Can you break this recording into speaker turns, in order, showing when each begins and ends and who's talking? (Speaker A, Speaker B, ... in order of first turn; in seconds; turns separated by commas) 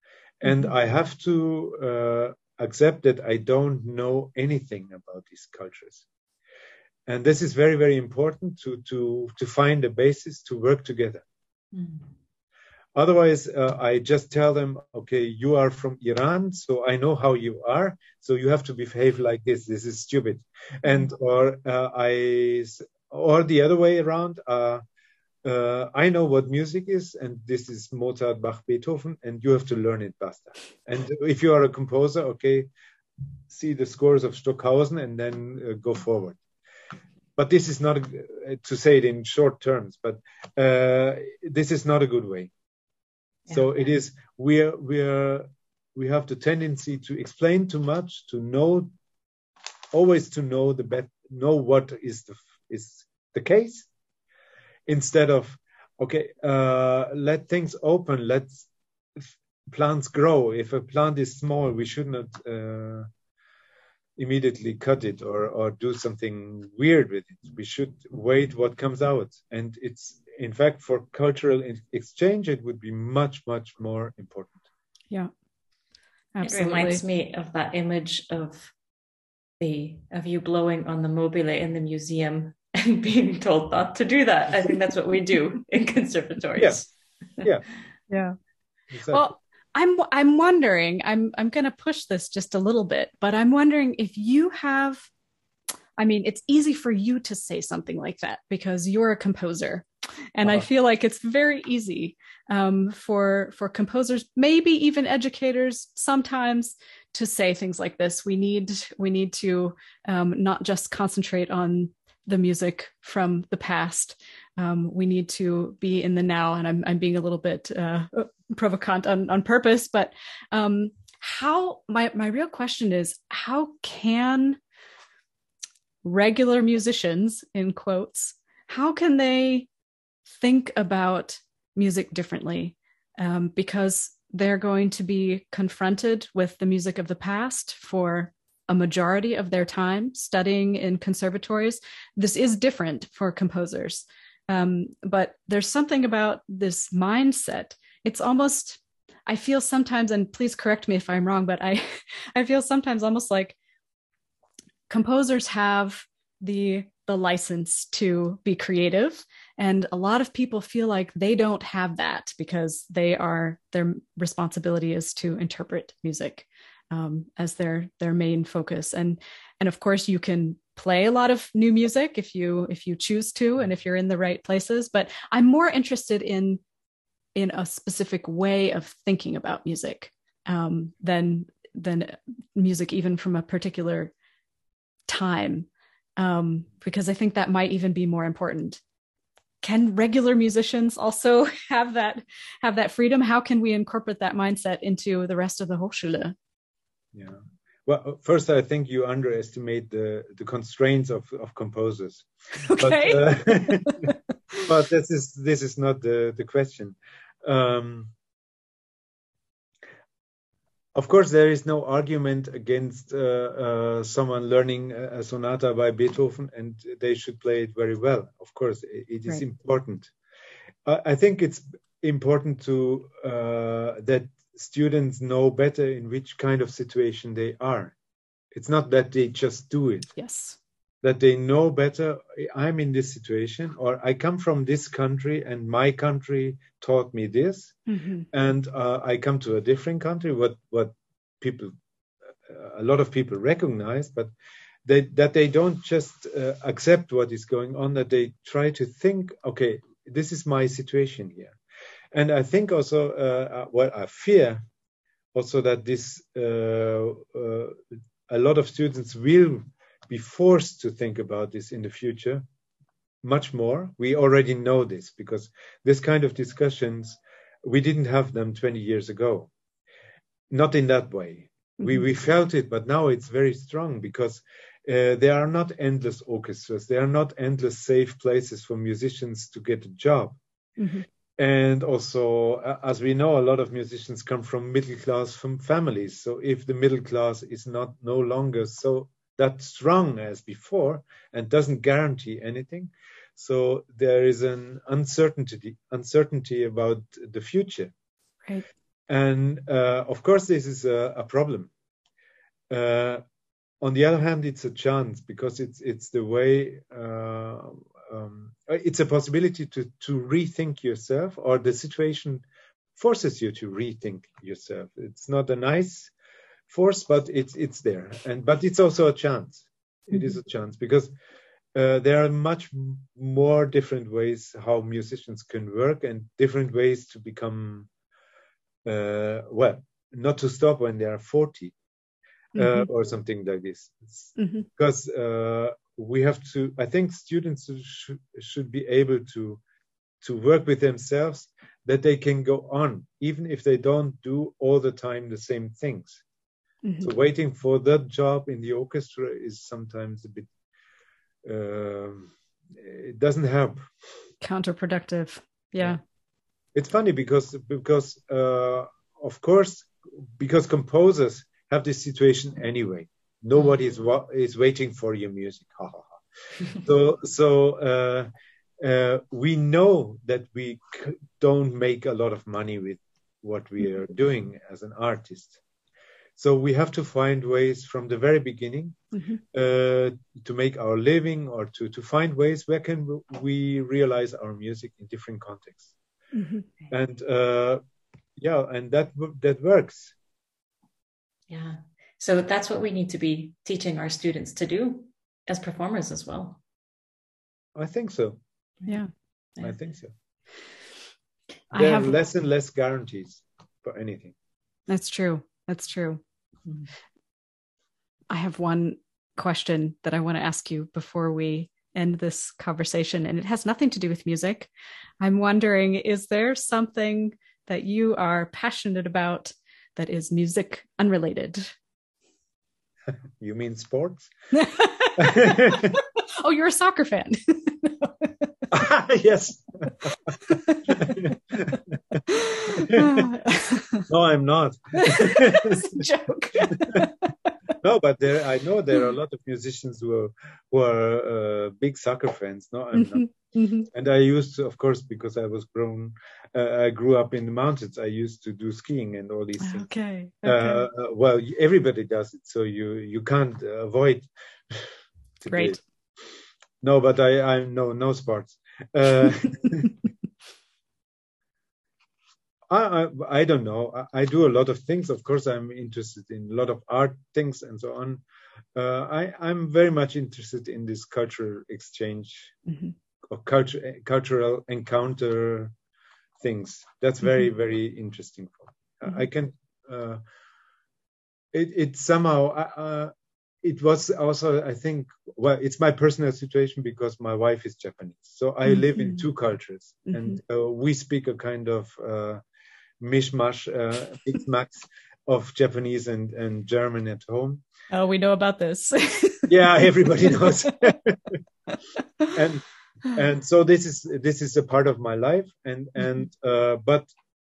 Speaker A: 0.4-6.1, Speaker A: 7.1-11.2, Speaker B: 11.7-12.1, Speaker A: 12.9-24.8, Speaker A: 25.4-32.7, Speaker A: 33.5-36.4, Speaker A: 37.4-42.5, Speaker A: 43.5-48.9, Speaker A: 49.9-53.9, Speaker A: 54.9-63.1, Speaker A: 64.2-74.6, Speaker C: 76.3-77.0, Speaker B: 76.4-78.7, Speaker B: 79.6-87.5, Speaker C: 88.1-88.3, Speaker A: 88.9-89.3, Speaker C: 89.1-95.1, Speaker C: 96.0-124.6, Speaker C: 126.0-129.7, Speaker C: 130.3-153.6, Speaker C: 154.9-176.6, Speaker C: 177.4-184.1, Speaker C: 185.1-188.8, Speaker C: 189.6-196.3, Speaker A: 197.1-204.1, Speaker C: 202.6-204.6, Speaker A: 204.6-208.1, Speaker A: 210.9-220.1, Speaker A: 220.9-227.9, Speaker A: 228.5-230.1, Speaker C: 230.2-230.6, Speaker A: 231.0-237.8, Speaker C: 237.9-238.3, Speaker A: 238.3-241.8, Speaker A: 242.5-244.3, Speaker A: 244.8-251.6, Speaker A: 252.1-254.7, Speaker A: 255.3-262.4, Speaker A: 263.2-269.5, Speaker A: 270.5-280.4, Speaker C: 280.8-281.1, Speaker A: 281.4-297.9, Speaker A: 299.1-301.7, Speaker A: 302.7-303.2, Speaker A: 303.8-312.4, Speaker A: 313.0-316.1, Speaker A: 316.7-321.1, Speaker A: 321.8-327.9, Speaker A: 328.9-331.8, Speaker A: 332.5-339.6, Speaker C: 332.6-332.9, Speaker C: 334.4-334.7, Speaker A: 340.2-346.2, Speaker C: 346.8-347.1, Speaker A: 347.0-350.5, Speaker A: 351.4-353.9, Speaker C: 354.4-356.0, Speaker A: 356.8-368.3, Speaker A: 368.8-375.6, Speaker A: 376.4-379.0, Speaker A: 379.5-385.9, Speaker C: 386.3-386.7, Speaker A: 386.9-387.8, Speaker A: 388.4-390.1, Speaker B: 391.5-396.6, Speaker A: 397.8-398.4, Speaker A: 399.6-400.1, Speaker C: 401.7-402.1, Speaker A: 401.8-404.3, Speaker C: 404.9-406.2, Speaker C: 408.3-421.7, Speaker A: 423.4-424.3, Speaker C: 424.5-428.3, Speaker A: 425.2-426.0, Speaker A: 428.7-433.3, Speaker C: 430.5-430.8, Speaker C: 432.3-434.1, Speaker A: 434.1-436.1, Speaker C: 435.0-437.3, Speaker A: 436.6-437.1, Speaker A: 437.8-449.9, Speaker C: 442.9-443.9, Speaker C: 449.6-450.9, Speaker A: 450.4-455.8, Speaker C: 455.5-455.8, Speaker A: 456.8-460.0, Speaker A: 462.7-468.2, Speaker A: 468.8-472.5, Speaker C: 472.7-472.9, Speaker A: 473.3-475.7, Speaker A: 476.4-480.2, Speaker A: 481.5-492.4, Speaker C: 488.7-489.2, Speaker C: 490.1-490.4, Speaker A: 493.0-497.6, Speaker C: 497.9-499.5, Speaker A: 499.5-501.4, Speaker C: 500.2-500.9, Speaker C: 501.7-502.0, Speaker A: 502.3-507.1